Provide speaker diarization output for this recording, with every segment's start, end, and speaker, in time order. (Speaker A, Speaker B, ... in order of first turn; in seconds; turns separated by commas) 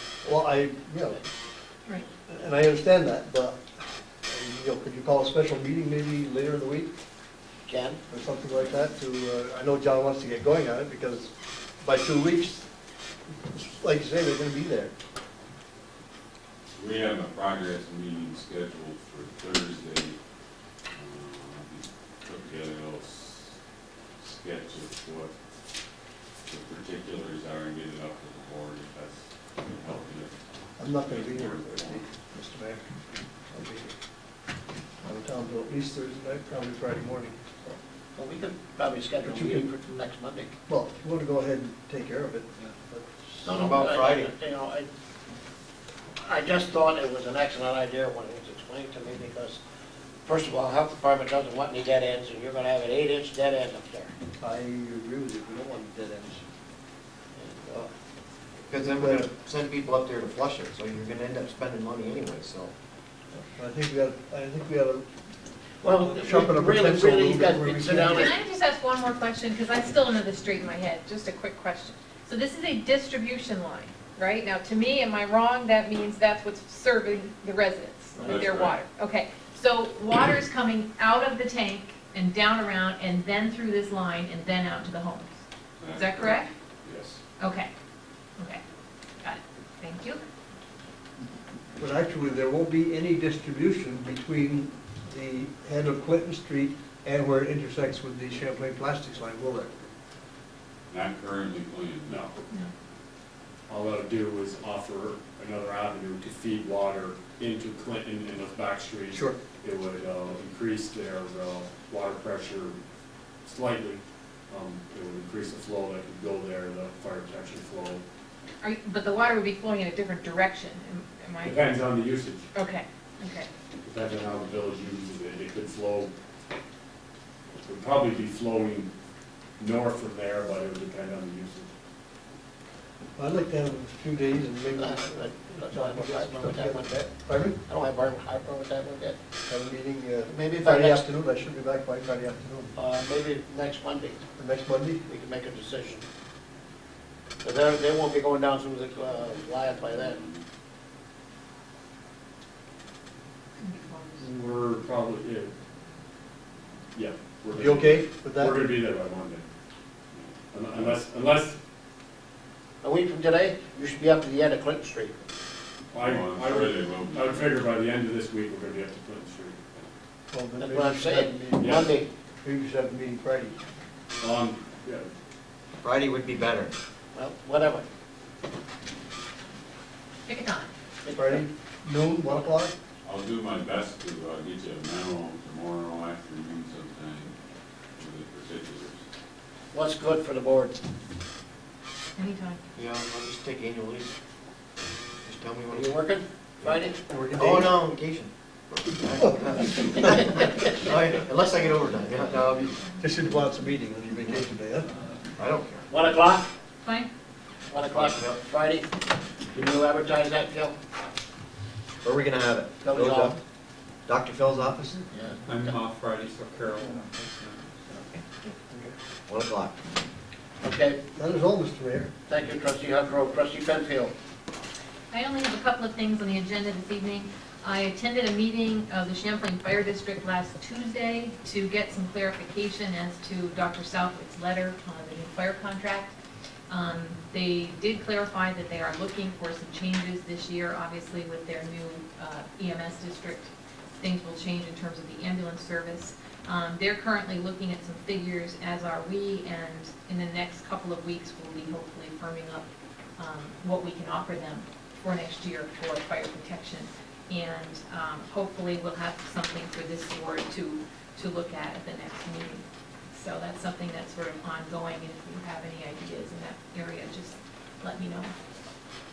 Speaker A: 0.2-1.2, Speaker A: 2.3-3.6, Speaker A: 4.3-6.9, Speaker B: 7.7-8.0, Speaker A: 8.1-12.7, Speaker A: 13.5-14.9, Speaker C: 16.8-20.1, Speaker C: 20.9-23.5, Speaker C: 24.2-25.3, Speaker C: 26.5-30.3, Speaker A: 30.8-32.9, Speaker C: 30.9-32.0, Speaker A: 33.5-33.9, Speaker A: 35.0-37.4, Speaker B: 38.1-40.5, Speaker A: 39.2-39.8, Speaker A: 40.7-43.7, Speaker B: 43.4-44.9, Speaker D: 43.5-44.3, Speaker B: 46.2-49.6, Speaker B: 50.2-54.1, Speaker A: 54.4-56.4, Speaker B: 57.3-57.9, Speaker D: 58.7-62.7, Speaker A: 58.8-59.3, Speaker A: 63.3-65.0, Speaker B: 65.8-68.3, Speaker A: 66.0-68.3, Speaker E: 68.1-86.5, Speaker C: 78.2-78.8, Speaker C: 85.8-87.2, Speaker E: 87.4-87.7, Speaker E: 89.2-90.2, Speaker A: 91.8-99.7, Speaker C: 100.9-102.2, Speaker F: 102.1-102.3, Speaker F: 103.7-112.8, Speaker A: 109.1-109.4, Speaker F: 113.4-118.0, Speaker E: 118.6-121.5, Speaker F: 121.4-122.5, Speaker E: 122.5-123.5, Speaker F: 123.8-126.1, Speaker F: 127.6-128.9, Speaker F: 129.6-131.7, Speaker A: 133.2-137.6, Speaker B: 134.7-137.1, Speaker B: 137.6-139.2, Speaker A: 139.5-142.7, Speaker B: 140.3-141.0, Speaker B: 142.8-144.2, Speaker A: 144.4-145.0, Speaker B: 145.1-146.0, Speaker B: 147.4-150.2, Speaker C: 149.9-150.4, Speaker E: 153.6-154.2, Speaker F: 154.2-155.5, Speaker F: 156.9-159.4, Speaker A: 157.5-158.6, Speaker C: 160.2-160.9, Speaker F: 160.5-161.6, Speaker B: 162.8-165.2, Speaker C: 165.9-167.5, Speaker F: 165.9-169.8, Speaker A: 170.3-173.6, Speaker B: 170.6-172.1, Speaker F: 171.6-171.8, Speaker F: 174.2-175.1, Speaker D: 175.8-176.7, Speaker B: 177.1-177.8, Speaker E: 180.3-180.7, Speaker B: 181.0-181.4, Speaker A: 181.1-182.7, Speaker C: 183.0-187.3, Speaker C: 187.9-189.0, Speaker B: 189.7-190.8, Speaker E: 192.2-192.6, Speaker D: 192.7-194.1, Speaker D: 195.2-196.0, Speaker B: 195.7-197.0, Speaker A: 197.1-197.8, Speaker D: 197.3-202.8, Speaker A: 199.2-200.6, Speaker E: 202.3-203.1, Speaker A: 203.0-204.9, Speaker D: 205.4-206.2, Speaker B: 205.9-206.5, Speaker E: 206.8-207.1, Speaker B: 207.7-208.9, Speaker D: 207.8-208.4, Speaker B: 209.5-210.8, Speaker D: 212.0-213.4, Speaker B: 212.8-213.4, Speaker D: 214.1-214.9, Speaker B: 215.1-215.4, Speaker G: 215.5-218.2, Speaker A: 218.7-218.9, Speaker D: 219.3-219.7, Speaker B: 220.6-221.0, Speaker A: 221.2-222.1, Speaker B: 222.3-224.1, Speaker E: 225.1-236.1, Speaker E: 236.7-252.7, Speaker E: 253.2-268.3